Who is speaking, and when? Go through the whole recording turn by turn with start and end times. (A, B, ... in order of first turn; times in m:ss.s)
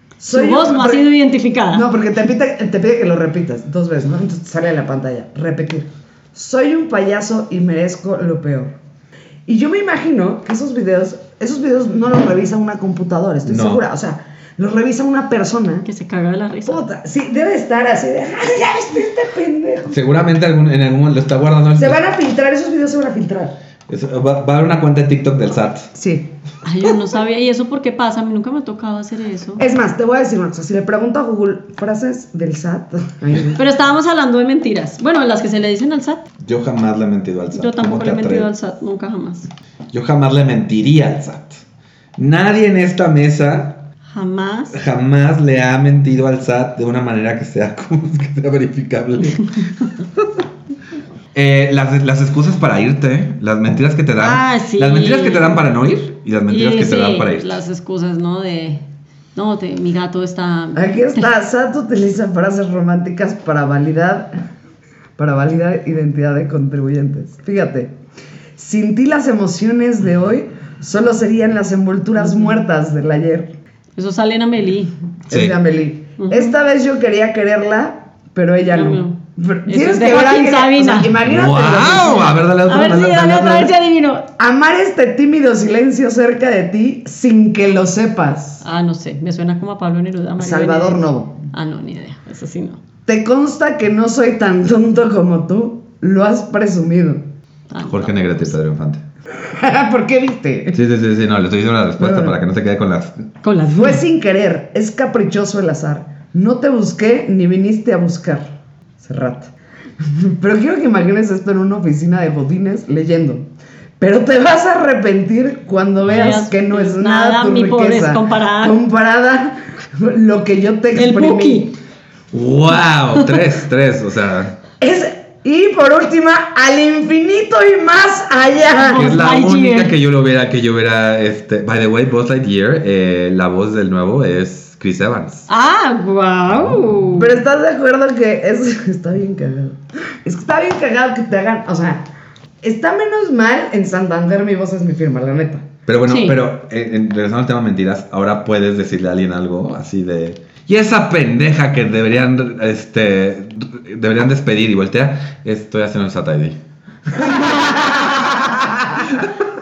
0:00.2-0:01.0 A
0:00.3-0:01.8 B
0:01.7-0:08.7 A
0:09.5-0:15.8 A
0:13.4-0:13.8 C
0:15.8-0:16.8 B
0:16.7-0:20.0 A
0:19.9-0:22.0 C
0:21.8-0:23.5 A
0:23.9-0:25.9 C
0:25.9-0:26.3 A
0:26.6-0:29.6 B
0:29.6-0:33.6 A
0:33.5-0:36.2 B
0:36.4-0:38.5 C
0:37.5-0:39.5 B
0:39.9-0:41.6 C
0:42.2-0:43.8 C
0:44.1-0:44.8 B
0:44.7-0:50.4 C
0:51.3-0:57.6 C
0:54.2-0:55.6 B
0:56.5-1:01.3 B
1:00.8-1:04.3 A
1:05.2-1:07.9 A
1:08.6-1:13.5 A
1:14.0-1:14.9 B
1:15.3-1:22.4 A
1:15.3-1:15.6 C
1:16.2-1:16.5 B
1:18.7-1:21.1 B
1:21.2-1:23.7 C
1:22.6-1:24.2 B
1:24.4-1:28.6 A
1:28.6-1:32.8 B
1:30.4-1:31.4 A
1:33.0-1:37.2 A
1:37.7-1:38.5 B
1:37.8-1:39.0 C
1:39.4-1:40.8 A
1:40.7-1:43.2 C
1:42.0-1:42.4 A
1:43.4-1:44.0 B
1:43.7-1:48.5 A
1:49.0-1:53.5 A
1:54.0-2:01.7 A
1:56.1-1:58.8 B
2:00.9-2:01.7 B
2:02.3-2:04.6 C
2:04.8-2:09.1 A
2:08.7-2:09.9 B
2:08.9-2:15.5 C
2:15.5-2:17.4 B
2:17.2-2:22.1 A
2:22.6-2:25.6 A
2:25.9-2:36.6 C
2:26.1-2:26.4 B
2:39.0-2:39.3 C